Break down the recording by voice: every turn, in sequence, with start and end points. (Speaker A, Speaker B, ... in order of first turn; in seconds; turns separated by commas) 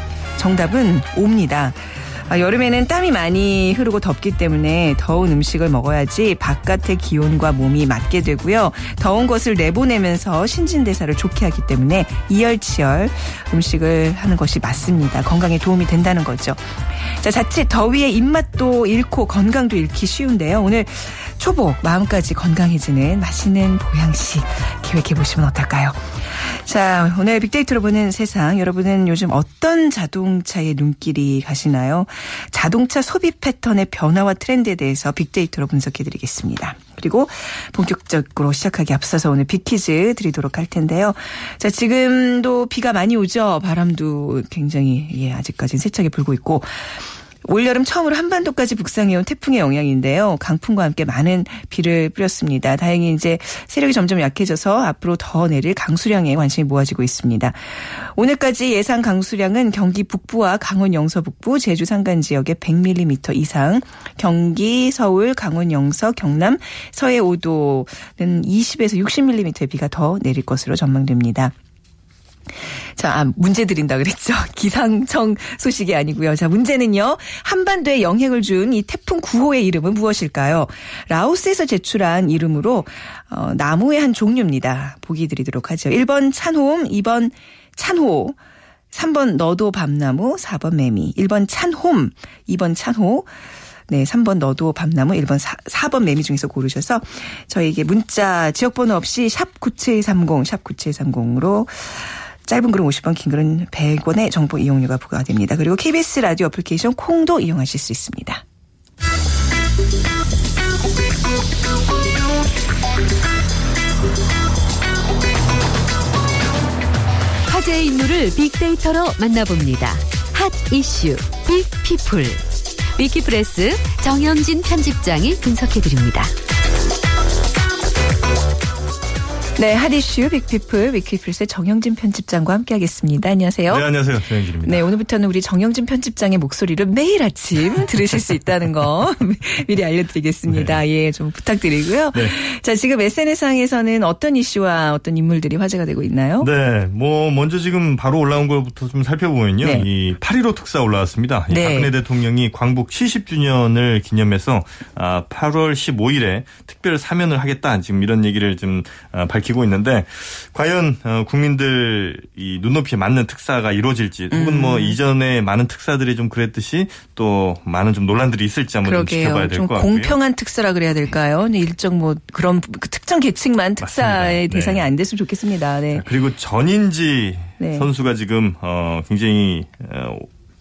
Speaker A: 0.4-71.5, Speaker A: 73.0-88.4, Speaker A: 88.9-93.3, Speaker A: 93.9-108.4, Speaker B: 117.5-122.4, Speaker B: 123.0-126.3, Speaker A: 129.6-133.9, Speaker C: 133.7-134.9, Speaker A: 134.6-146.5, Speaker C: 140.5-140.8, Speaker C: 146.4-170.2, Speaker A: 151.5-151.9, Speaker A: 164.3-165.0, Speaker A: 168.8-176.0, Speaker C: 173.8-174.9, Speaker C: 175.9-180.3, Speaker A: 177.6-177.9